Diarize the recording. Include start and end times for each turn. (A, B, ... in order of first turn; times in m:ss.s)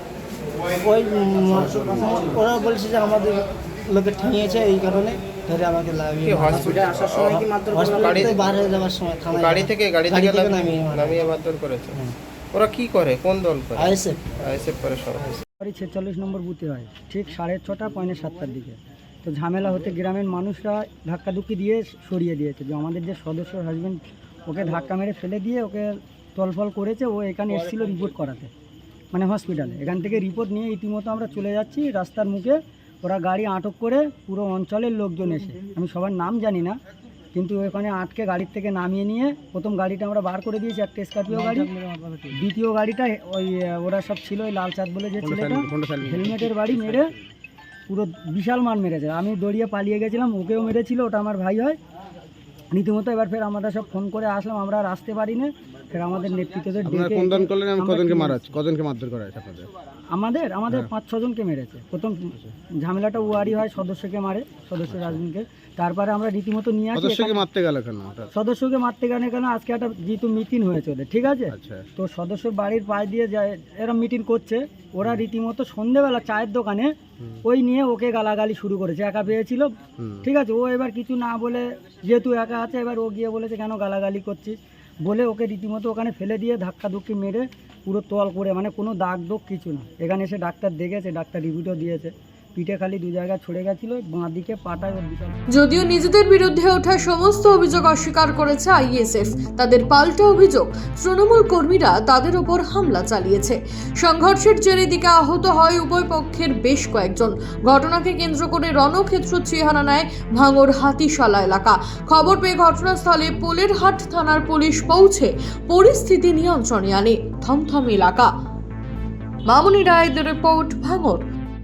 0:00.8-0:11.2 A
0:06.2-0:08.6 B
0:09.3-0:12.0 B
0:12.5-0:15.4 B
0:13.8-0:14.2 A
0:15.6-0:28.5 C
0:29.1-0:36.8 C
0:37.3-0:41.7 C
0:42.3-0:47.1 C
0:45.2-0:47.1 D
0:47.9-0:51.8 C
0:52.7-0:58.6 C
0:56.8-0:59.7 D
1:00.1-1:07.4 C
1:04.9-1:05.2 D
1:06.9-1:08.3 D
1:08.3-1:16.9 C
1:11.5-1:11.8 D
1:17.4-1:35.3 C
1:20.0-1:20.3 D
1:35.5-1:58.3 E
1:59.5-2:01.2 E